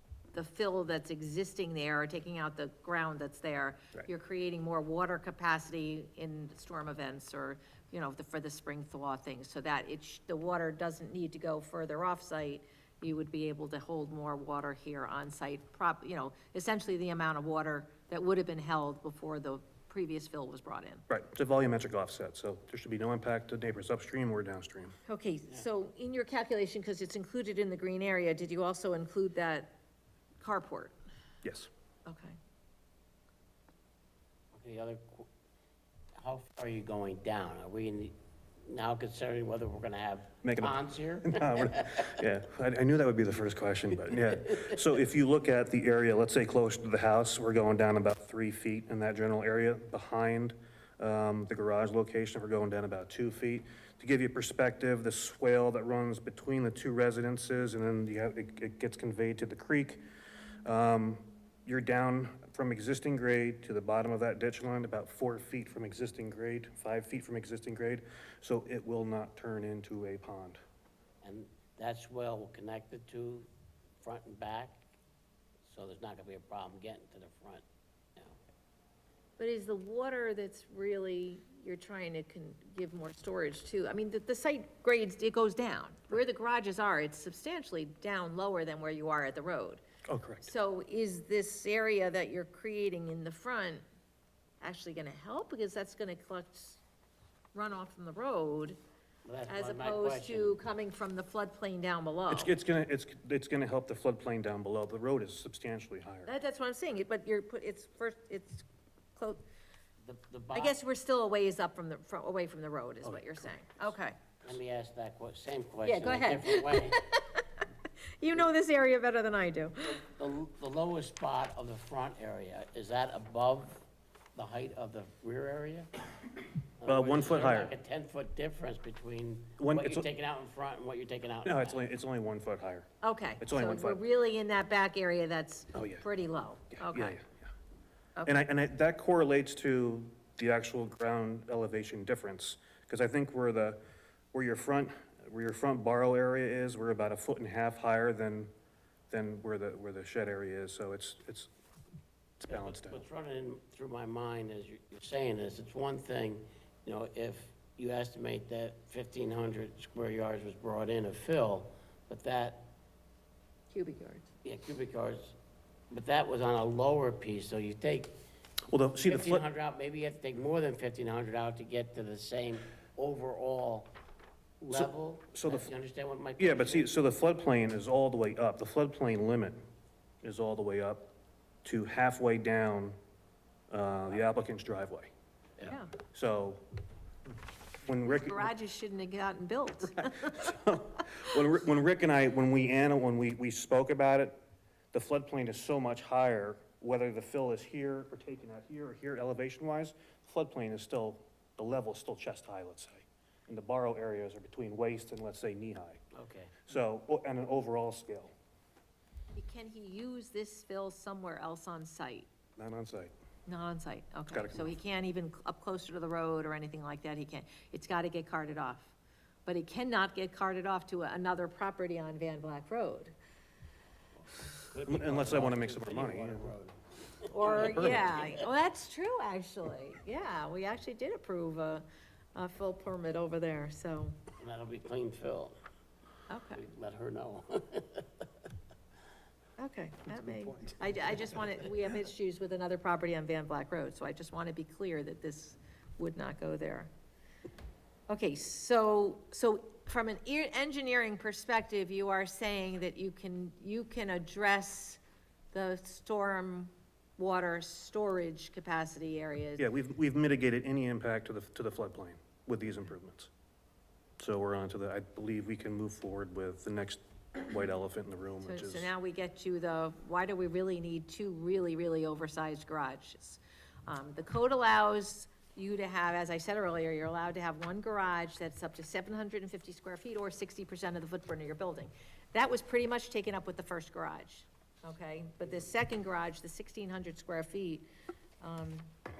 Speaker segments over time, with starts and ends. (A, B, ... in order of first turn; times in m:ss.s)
0:00.3-0:21.0 A
0:21.1-0:25.0 B
0:25.1-0:29.8 A
0:30.4-0:31.0 A
0:31.4-0:31.7 B
0:32.0-0:32.4 A
0:34.5-0:35.3 C
0:36.1-0:42.2 C
0:40.4-1:00.0 B
1:00.6-1:10.6 B
1:11.2-1:13.5 C
1:14.0-1:14.9 C
1:15.6-1:17.6 C
1:19.4-1:29.8 A
1:30.1-1:30.5 B
1:30.4-1:33.8 A
1:34.6-1:36.8 A
1:37.5-1:38.8 A
1:39.2-1:40.6 C
1:39.5-1:42.5 A
1:42.3-1:46.3 B
1:46.2-1:49.4 A
1:50.0-1:50.8 C
1:50.5-1:54.2 A
1:54.4-1:57.0 C
1:55.8-1:57.6 A
1:58.2-2:00.0 A
1:59.9-2:03.8 C
2:04.3-2:11.8 C
2:06.8-2:07.7 B
2:09.6-2:10.0 B
2:11.4-2:12.9 B
2:13.0-2:17.2 A
2:13.4-2:14.0 B
2:15.7-2:16.0 B
2:16.7-2:17.4 B
2:18.2-2:23.8 B
2:24.3-2:28.5 B
2:29.1-2:31.5 B
2:32.4-2:33.0 B
2:32.5-2:42.7 C
2:43.7-2:44.3 A
2:44.4-2:45.4 C
2:45.9-2:48.2 C
2:48.7-2:49.4 B
2:49.0-2:53.9 C
2:54.6-2:55.7 B
2:54.7-2:56.9 C
2:56.4-2:59.6 B
3:00.2-3:01.1 B
3:01.6-3:03.0 B
3:03.7-3:05.1 B
3:05.6-3:05.9 A
3:06.1-3:06.6 B
3:07.8-3:08.5 B
3:08.1-3:10.5 A
3:10.0-3:14.4 B
3:14.9-3:26.0 B
3:26.1-3:26.6 C
3:26.7-3:28.3 B
3:29.3-3:32.3 A
3:32.6-3:33.1 B
3:33.5-3:38.9 A
3:34.3-3:34.8 B
3:39.4-3:43.1 A
3:44.7-3:48.4 C
3:44.8-3:46.5 B
3:47.3-3:54.2 A
3:47.4-3:48.1 B
3:54.4-3:55.6 C
3:56.3-3:56.6 A
3:56.5-3:58.2 C
3:59.6-4:06.9 A
4:08.1-4:15.0 A
4:15.5-4:19.6 A
4:19.6-4:23.3 B
4:24.2-4:28.9 B
4:28.4-4:47.9 A
4:48.4-4:48.9 A